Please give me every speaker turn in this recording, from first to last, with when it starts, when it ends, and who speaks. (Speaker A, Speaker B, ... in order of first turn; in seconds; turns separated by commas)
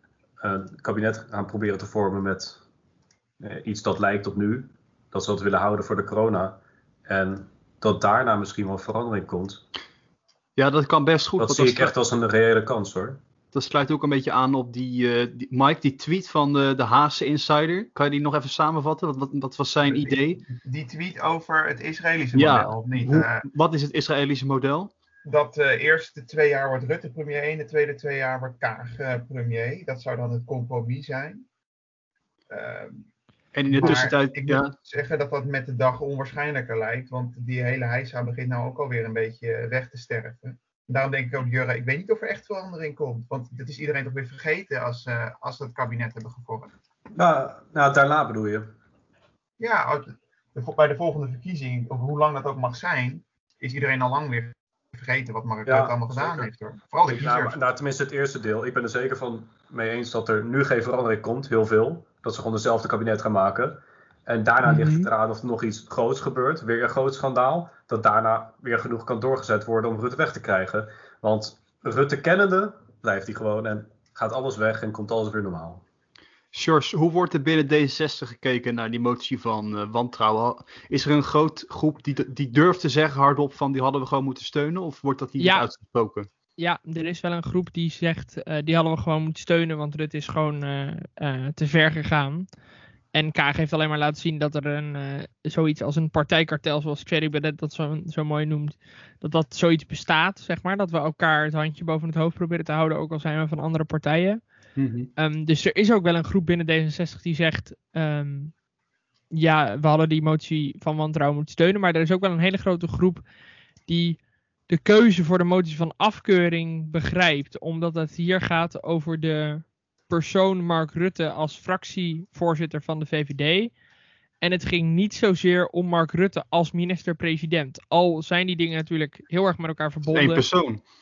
Speaker A: 0.4-2.6, Speaker A: 3.4-9.6, Speaker B: 10.6-11.9, Speaker A: 11.4-13.2, Speaker B: 13.5-20.4, Speaker C: 19.9-23.4, Speaker B: 22.3-24.9, Speaker C: 25.2-31.4, Speaker C: 32.5-33.0, Speaker B: 33.5-34.7, Speaker C: 33.7-46.7, Speaker A: 47.1-48.7, Speaker C: 49.6-57.6, Speaker A: 55.6-56.5, Speaker A: 57.0-75.8, Speaker D: 64.7-65.1, Speaker B: 76.5-86.3, Speaker D: 85.4-85.7, Speaker D: 86.6-92.5, Speaker D: 93.1-104.4, Speaker B: 104.8-105.1, Speaker D: 105.2-108.5, Speaker D: 109.3-113.2, Speaker D: 113.9-123.7, Speaker D: 124.4-130.4, Speaker B: 130.1-130.8